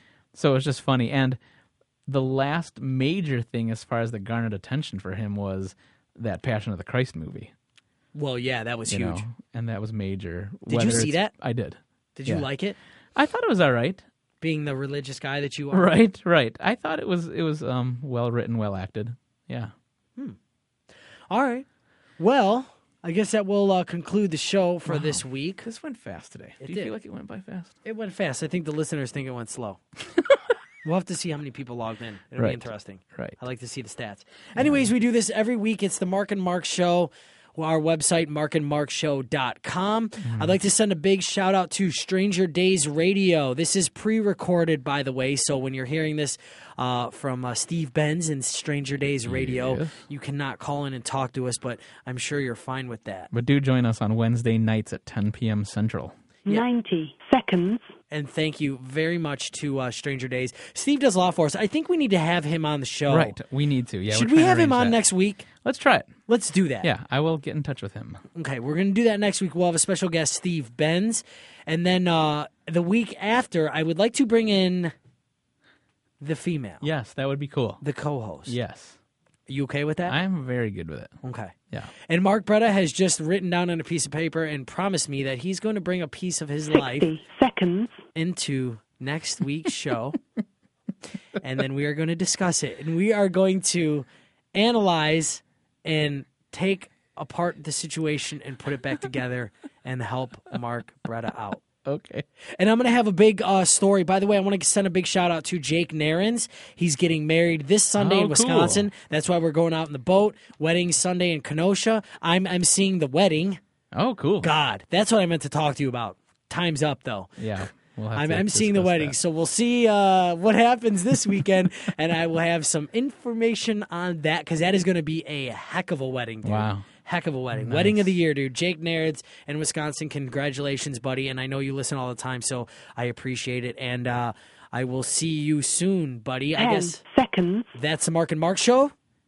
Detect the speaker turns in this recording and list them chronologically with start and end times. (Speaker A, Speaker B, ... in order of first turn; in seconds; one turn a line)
Speaker A: 0.3-1.4
Speaker A: 2.1-7.5
Speaker B: 8.1-9.2
Speaker A: 8.9-12.5
Speaker B: 10.7-11.3
Speaker B: 12.2-12.8
Speaker A: 13.2-14.0
Speaker B: 14.4-15.9
Speaker A: 15.7-19.7
Speaker B: 21.3-21.7
Speaker B: 22.2-25.6
Speaker A: 24.9-27.7
Speaker B: 26.6-26.9
Speaker B: 27.8-29.8
Speaker B: 30.8-53.3
Speaker A: 32.4-33.4
Speaker A: 34.6-34.9
Speaker A: 40.2-40.5
Speaker A: 49.2-50.0
Speaker A: 53.3-56.1
Speaker C: 56.5-57.9
Speaker B: 58.1-63.4
Speaker A: 63.1-65.0
Speaker B: 64.1-65.5
Speaker A: 65.5-66.1
Speaker B: 66.3-66.9
Speaker A: 66.8-68.2
Speaker B: 68.3-74.9
Speaker B: 76.2-76.8
Speaker A: 76.8-77.8
Speaker B: 77.8-78.6
Speaker A: 78.5-79.0
Speaker B: 79.5-80.2
Speaker A: 80.1-81.2
Speaker B: 81.2-87.1
Speaker C: 86.7-88.0
Speaker B: 88.1-90.2
Speaker B: 91.4-101.6
Speaker A: 101.8-102.2
Speaker B: 102.4-113.6
Speaker A: 108.0-108.9
Speaker A: 113.9-114.5
Speaker B: 114.4-117.4
Speaker A: 117.4-119.1
Speaker B: 118.1-137.0
Speaker A: 126.4-126.8
Speaker A: 127.5-128.1
Speaker C: 136.6-137.7
Speaker B: 137.7-138.9